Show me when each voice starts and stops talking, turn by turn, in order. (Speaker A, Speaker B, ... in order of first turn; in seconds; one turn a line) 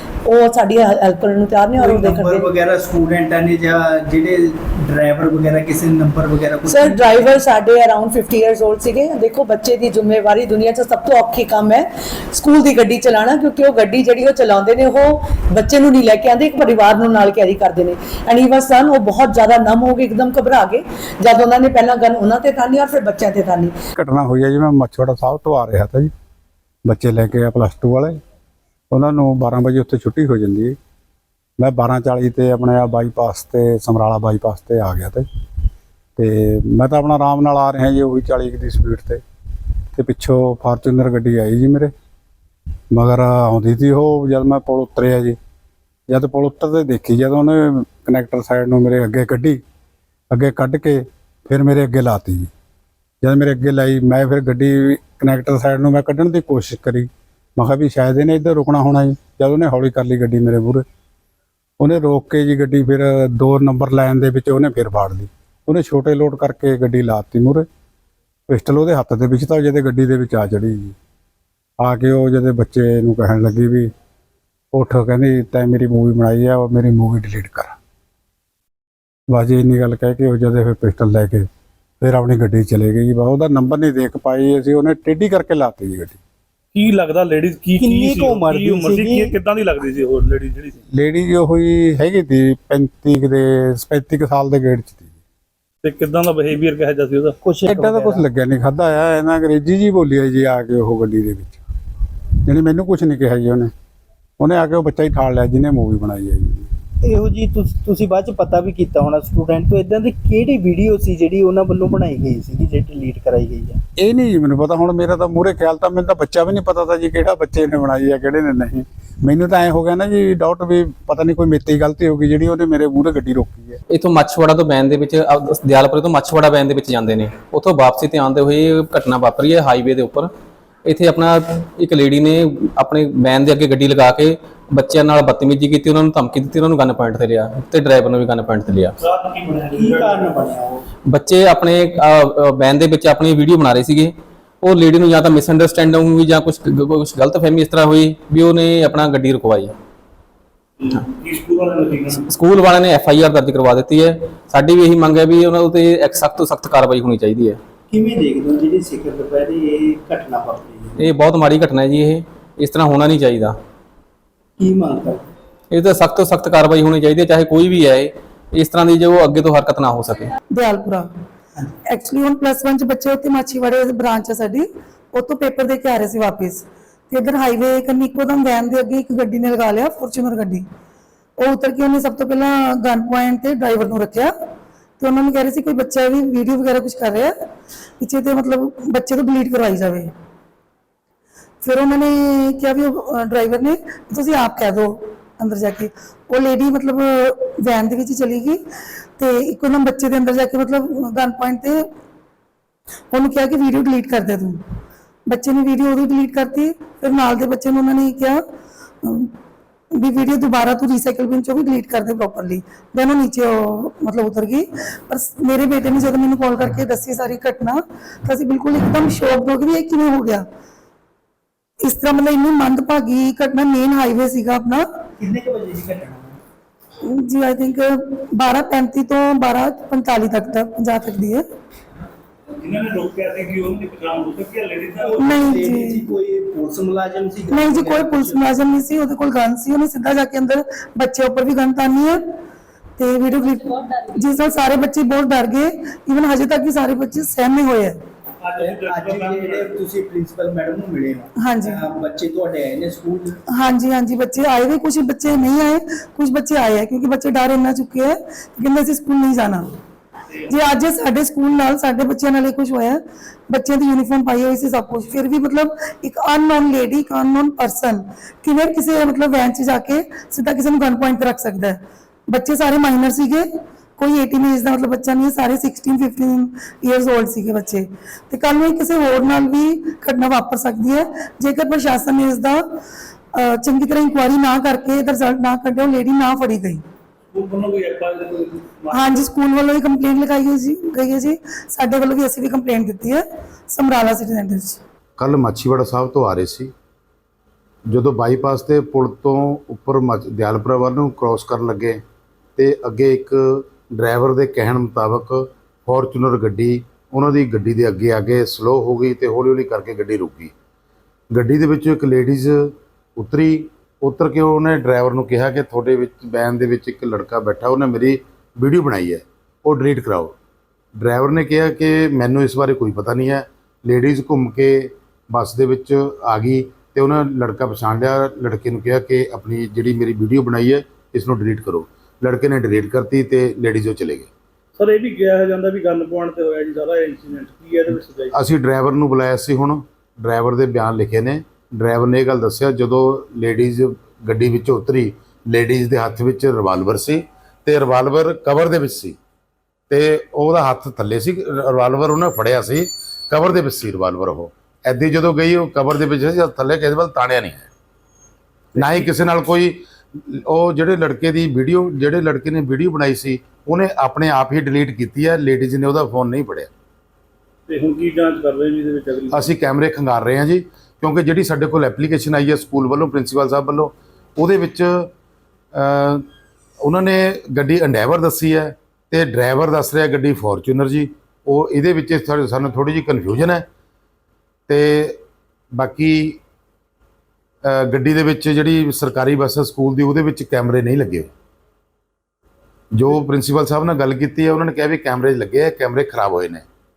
Speaker A: 0.2-2.5
Speaker B: 1.8-7.4
Speaker A: 6.7-23.7
Speaker C: 24.0-26.1
Speaker C: 26.9-28.2
Speaker C: 28.9-30.8
Speaker C: 31.6-35.2
Speaker C: 36.2-39.2
Speaker C: 39.9-41.9
Speaker C: 42.9-45.4
Speaker C: 46.1-49.6
Speaker C: 50.3-52.5
Speaker C: 53.2-60.9
Speaker C: 61.8-67.7
Speaker C: 68.5-71.0
Speaker C: 71.8-73.9
Speaker C: 74.7-77.8
Speaker C: 79.3-81.5
Speaker C: 82.0-86.2
Speaker D: 86.7-90.8
Speaker B: 87.8-89.4
Speaker C: 90.9-95.1
Speaker D: 95.8-97.4
Speaker B: 97.4-98.2
Speaker C: 97.7-101.6
Speaker C: 102.5-103.7
Speaker C: 104.4-106.7
Speaker B: 107.0-113.8
Speaker C: 114.0-123.8
Speaker E: 123.9-130.3
Speaker E: 130.8-138.9
Speaker D: 139.0-140.4
Speaker B: 139.7-140.8
Speaker E: 141.1-149.7
Speaker D: 150.8-152.2
Speaker E: 152.2-157.6
Speaker B: 157.9-161.1
Speaker E: 161.0-163.6
Speaker B: 164.6-165.2
Speaker E: 165.7-170.3
Speaker F: 170.5-171.1
Speaker F: 171.9-180.7
Speaker F: 181.4-184.3
Speaker F: 185.0-187.3
Speaker F: 188.0-190.1
Speaker F: 191.6-198.6
Speaker F: 199.2-201.8
Speaker F: 203.1-204.6
Speaker F: 205.3-208.4
Speaker F: 209.0-209.3
Speaker F: 209.9-220.5
Speaker F: 221.8-224.9
Speaker B: 225.2-226.4
Speaker F: 227.0-231.4
Speaker D: 232.6-235.4
Speaker B: 235.0-238.6
Speaker F: 235.2-236.0
Speaker F: 237.5-242.2
Speaker F: 243.0-248.0
Speaker D: 248.4-249.8
Speaker B: 248.6-253.4
Speaker F: 251.4-251.8
Speaker F: 253.5-259.7
Speaker F: 260.5-282.7
Speaker F: 283.3-286.8
Speaker D: 287.3-289.3
Speaker F: 288.9-294.8
Speaker G: 295.2-296.7
Speaker G: 297.9-302.0
Speaker G: 302.6-310.5
Speaker G: 311.3-320.4
Speaker G: 321.0-334.3
Speaker D: 334.8-338.4
Speaker G: 338.3-349.2
Speaker G: 349.9-357.7
Speaker D: 358.7-359.2
Speaker G: 358.8-366.7
Speaker D: 367.7-369.6
Speaker G: 369.3-375.1
Speaker G: 375.7-376.2
Speaker G: 376.8-383.7
Speaker G: 384.7-386.4
Speaker G: 387.6-391.3
Speaker G: 392.9-396.6